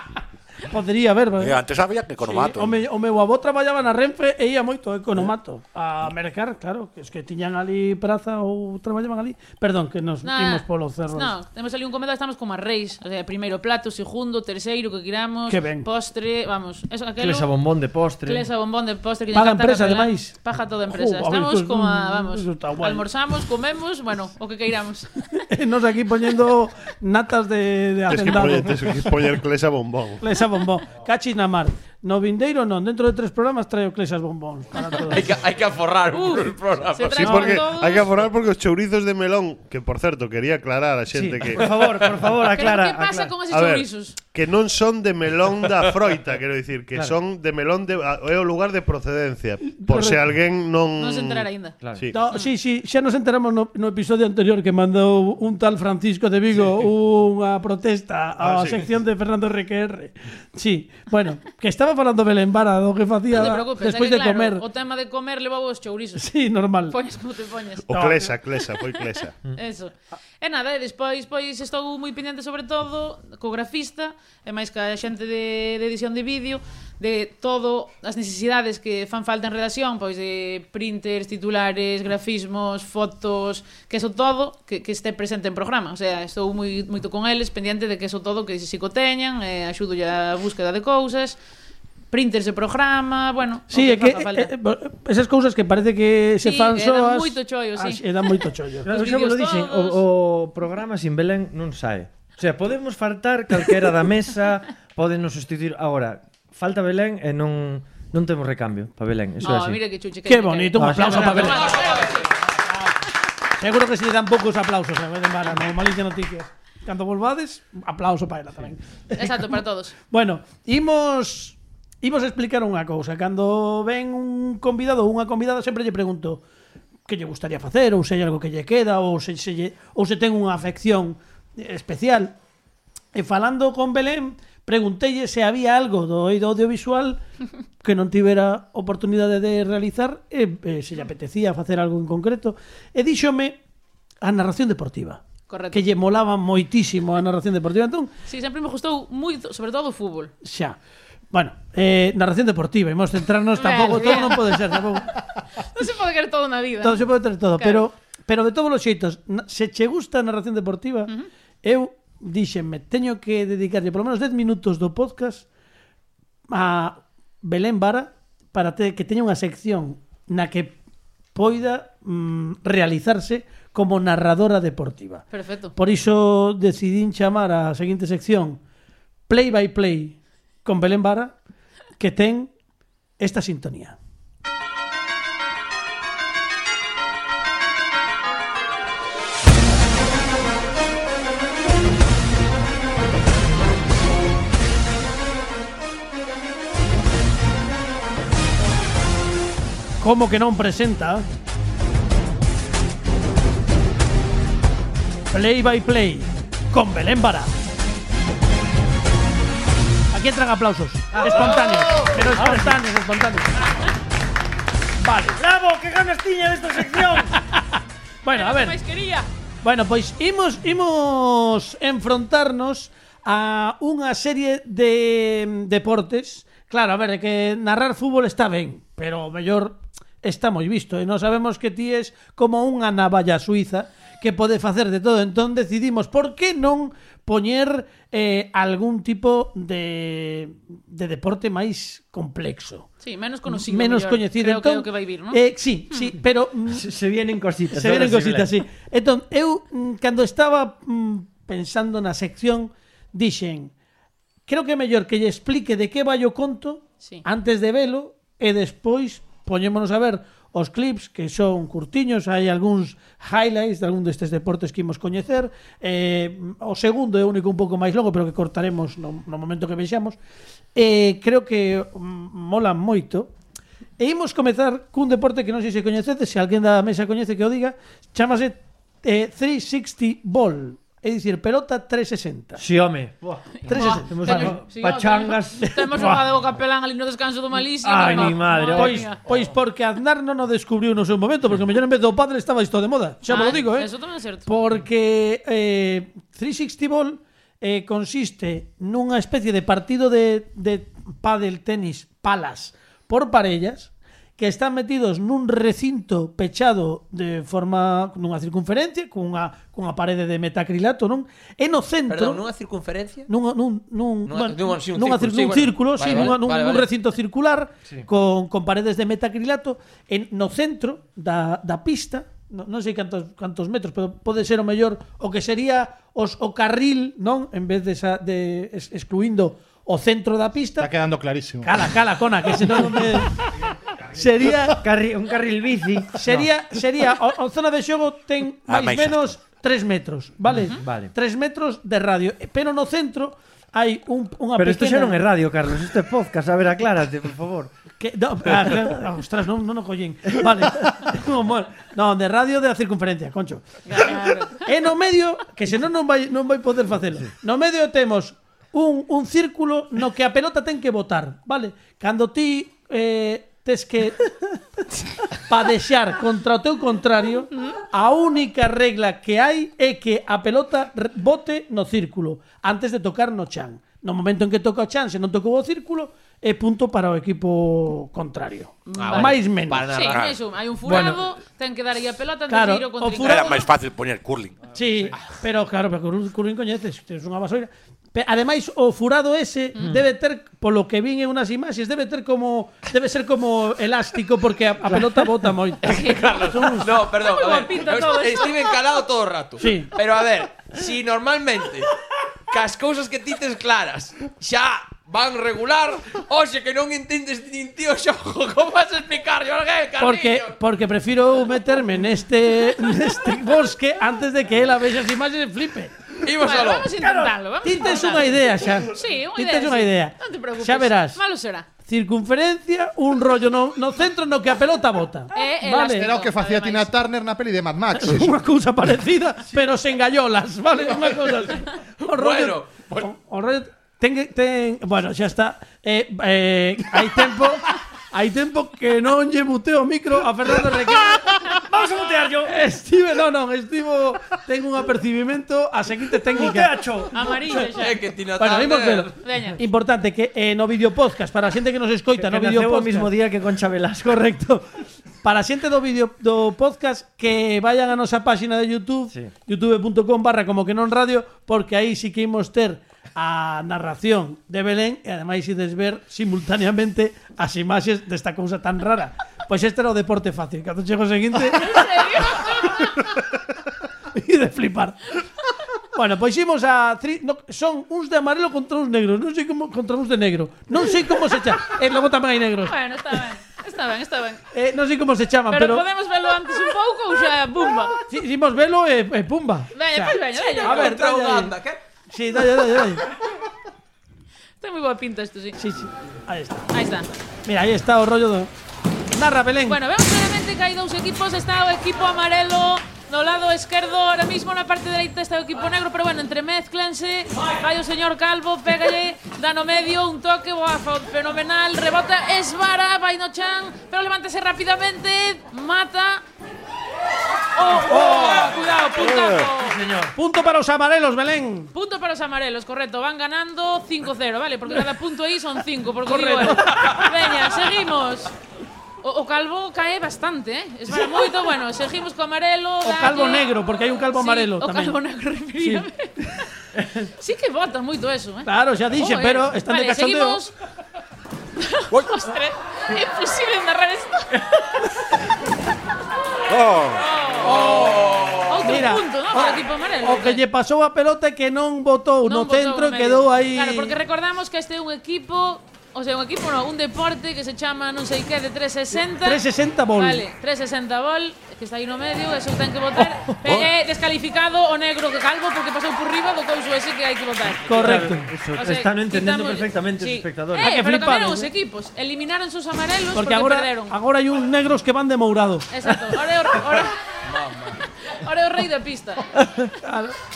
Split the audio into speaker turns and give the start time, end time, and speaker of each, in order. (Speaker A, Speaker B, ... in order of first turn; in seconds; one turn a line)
Speaker A: 0.6-1.6
Speaker B: 1.4-2.8
Speaker A: 2.2-11.3
Speaker C: 10.2-17.5
Speaker A: 15.5-15.9
Speaker D: 17.2-18.5
Speaker C: 18.2-25.1
Speaker A: 19.3-20.4
Speaker A: 20.9-23.1
Speaker A: 25.4-29.1
Speaker E: 28.1-30.2
Speaker A: 30.2-35.4
Speaker C: 34.7-35.2
Speaker F: 35.1-37.5
Speaker C: 36.1-38.1
Speaker E: 37.1-41.8
Speaker D: 41.1-43.4
Speaker C: 42.5-44.2
Speaker E: 43.5-52.2
Speaker A: 49.7-50.2
Speaker C: 51.0-51.8
Speaker D: 51.8-52.1
Speaker A: 52.1-64.6
Speaker E: 58.4-58.8
Speaker C: 63.3-66.3
Speaker A: 66.2-67.0
Speaker C: 66.9-67.9
Speaker E: 67.9-69.3
Speaker A: 67.9-68.3
Speaker C: 69.5-91.4
Speaker C: 92.1-94.5
Speaker A: 93.7-98.9
Speaker C: 96.4-100.0
Speaker D: 98.8-109.8
Speaker C: 109.4-112.3
Speaker A: 110.3-112.0
Speaker D: 110.7-111.7
Speaker F: 111.4-112.2
Speaker A: 113.6-126.4
Speaker C: 119.2-119.9
Speaker A: 127.1-132.3
Speaker A: 133.1-137.2
Speaker A: 137.8-143.6
Speaker A: 144.2-148.1
Speaker C: 145.5-145.8
Speaker C: 148.3-150.3
Speaker A: 150.4-150.8
Speaker A: 151.3-155.2
Speaker C: 153.6-154.6
Speaker C: 155.7-157.8
Speaker A: 156.8-161.1
Speaker A: 161.6-165.4
Speaker A: 166.5-170.7
Speaker A: 171.3-175.2
Speaker C: 175.3-175.7
Speaker A: 175.8-178.6
Speaker A: 179.3-181.3
Speaker A: 182.0-182.5
Speaker A: 183.2-183.9
Speaker A: 200.0-201.3
Speaker A: 205.3-207.5
Speaker A: 210.1-213.5
Speaker D: 211.1-212.8
Speaker A: 215.0-215.4
Speaker D: 215.3-217.3
Speaker A: 217.0-218.8
Speaker C: 218.3-219.3
Speaker A: 219.6-242.9
Speaker C: 243.0-246.1
Speaker A: 243.5-246.8
Speaker D: 246.7-248.5
Speaker A: 247.7-253.7
Speaker A: 254.5-270.2
Speaker A: 270.7-273.3
Speaker A: 274.0-282.6
Speaker D: 282.6-286.2
Speaker C: 283.6-289.2
Speaker A: 283.7-284.6
Speaker A: 285.7-286.2
Speaker D: 287.8-289.4
Speaker A: 288.1-293.9
Speaker C: 293.3-294.5
Speaker A: 294.5-312.4
Speaker F: 312.1-313.3
Speaker A: 313.3-330.9
Speaker F: 314.2-316.9
Speaker G: 330.8-331.9
Speaker A: 331.6-333.4
Speaker A: 334.1-334.8
Speaker D: 334.7-336.5
Speaker A: 336.1-345.2
Speaker B: 338.7-339.4
Speaker D: 340.5-341.1
Speaker C: 340.6-340.8
Speaker D: 344.5-347.7
Speaker A: 348.0-364.6
Speaker C: 353.9-354.7
Speaker A: 365.3-379.9
Speaker C: 367.5-367.8
Speaker C: 378.9-383.7
Speaker F: 378.9-380.2
Speaker B: 380.1-380.4
Speaker D: 380.8-381.2
Speaker A: 382.5-383.6
Speaker B: 383.2-384.7
Speaker A: 384.7-397.0
Speaker D: 389.8-390.0
Speaker D: 394.8-395.3
Speaker C: 395.8-399.0
Speaker F: 395.9-401.9
Speaker A: 399.6-399.9
Speaker F: 402.5-410.6
Speaker A: 410.0-416.1
Speaker F: 416.2-416.9
Speaker C: 416.4-418.4
Speaker D: 417.0-417.3
Speaker A: 417.6-421.2
Speaker C: 418.9-421.7
Speaker A: 421.8-426.1
Speaker C: 425.3-426.9
Speaker G: 425.9-428.4
Speaker A: 428.0-441.5
Speaker F: 432.1-433.1
Speaker D: 441.6-442.6
Speaker A: 442.4-447.6
Speaker D: 446.3-447.2
Speaker C: 447.1-448.0
Speaker F: 447.8-449.1
Speaker A: 448.4-453.1
Speaker C: 449.2-449.6
Speaker D: 452.1-454.3
Speaker A: 454.1-454.6
Speaker A: 455.2-473.1
Speaker C: 471.5-473.0
Speaker A: 474.1-475.1
Speaker A: 475.9-482.7
Speaker C: 482.6-484.4
Speaker A: 484.5-485.8
Speaker C: 485.5-488.0
Speaker A: 488.1-491.5
Speaker C: 489.7-491.0
Speaker F: 490.6-491.8
Speaker A: 492.1-493.1
Speaker C: 494.6-495.6
Speaker A: 495.6-496.7
Speaker C: 496.7-497.1
Speaker A: 497.4-498.5
Speaker A: 499.1-499.8
Speaker C: 499.6-516.2
Speaker C: 517.5-519.8
Speaker A: 517.8-518.5
Speaker D: 519.1-520.1
Speaker A: 520.1-521.7
Speaker C: 521.7-528.3
Speaker A: 526.0-527.1
Speaker C: 529.0-536.1
Speaker A: 530.9-531.2
Speaker A: 532.8-535.0
Speaker A: 535.6-536.4
Speaker C: 537.2-540.5
Speaker A: 538.5-540.4
Speaker C: 541.6-544.7
Speaker B: 546.5-547.0
Speaker C: 546.9-550.4
Speaker F: 547.4-548.6
Speaker A: 547.5-548.0
Speaker A: 548.6-553.9
Speaker C: 552.2-559.4
Speaker A: 559.1-560.2
Speaker C: 560.0-574.0
Speaker A: 567.7-568.3
Speaker D: 567.7-570.7
Speaker A: 570.6-571.5
Speaker A: 573.1-575.7
Speaker C: 575.7-577.0
Speaker F: 577.3-577.8
Speaker C: 578.0-579.3
Speaker D: 579.4-579.7
Speaker A: 579.8-580.1